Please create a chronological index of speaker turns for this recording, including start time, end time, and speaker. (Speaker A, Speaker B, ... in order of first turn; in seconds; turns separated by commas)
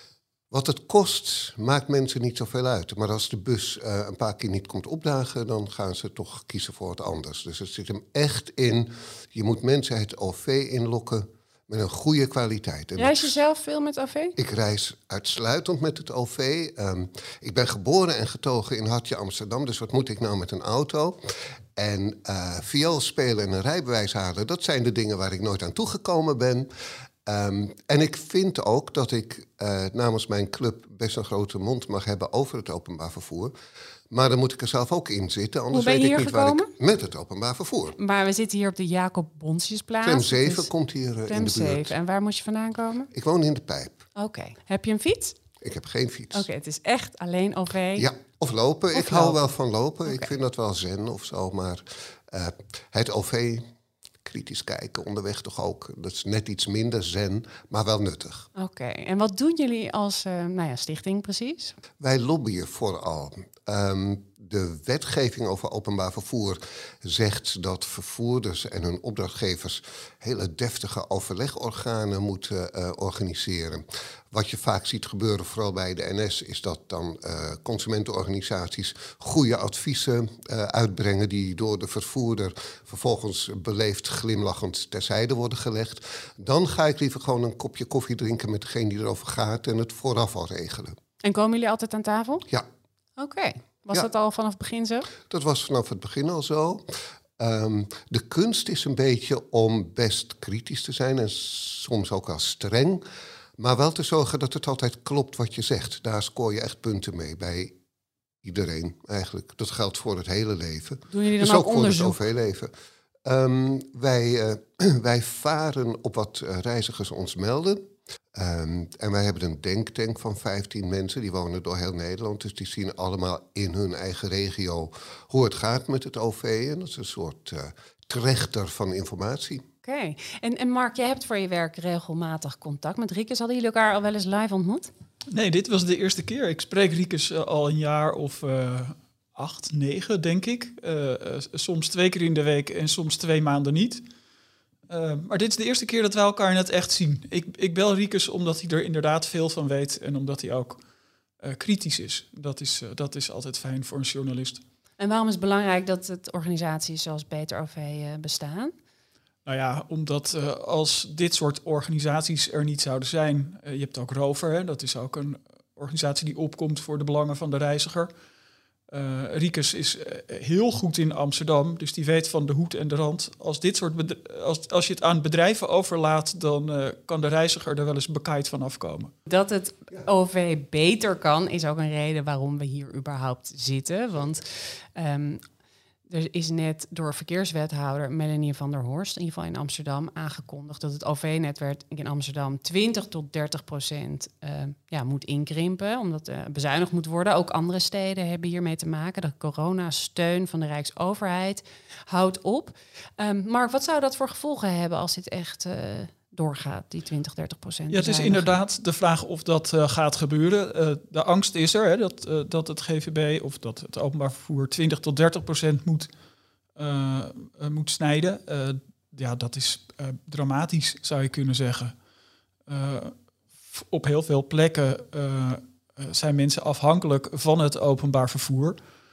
Speaker A: 0.5-13.3, Speaker B: 13.0-14.3, Speaker A: 14.4-21.2, Speaker A: 21.8-26.7, Speaker A: 27.2-33.5, Speaker A: 34.1-38.0, Speaker B: 35.7-36.7, Speaker B: 38.0-40.7, Speaker A: 40.0-41.9, Speaker B: 41.3-43.1, Speaker A: 43.1-44.0, Speaker B: 44.1-45.4, Speaker A: 45.6-46.5, Speaker B: 46.3-48.1, Speaker A: 48.0-53.6, Speaker B: 48.9-49.4, Speaker A: 54.2-58.5, Speaker B: 58.5-61.7, Speaker A: 62.0-91.0, Speaker B: 91.2-92.5, Speaker B: 93.2-95.1, Speaker A: 95.2-96.8, Speaker A: 97.4-103.0, Speaker A: 103.6-107.7, Speaker A: 108.4-112.7, Speaker B: 111.1-112.2, Speaker A: 113.2-117.8, Speaker A: 118.3-129.6, Speaker B: 129.8-134.9, Speaker C: 135.3-144.0, Speaker C: 144.9-150.8, Speaker C: 151.4-154.6, Speaker B: 155.0-158.7, Speaker C: 159.4-168.1, Speaker C: 168.9-179.1, Speaker B: 179.3-185.4, Speaker B: 186.1-208.5, Speaker C: 207.9-216.1, Speaker C: 216.8-221.9, Speaker C: 222.7-223.1, Speaker C: 223.7-228.8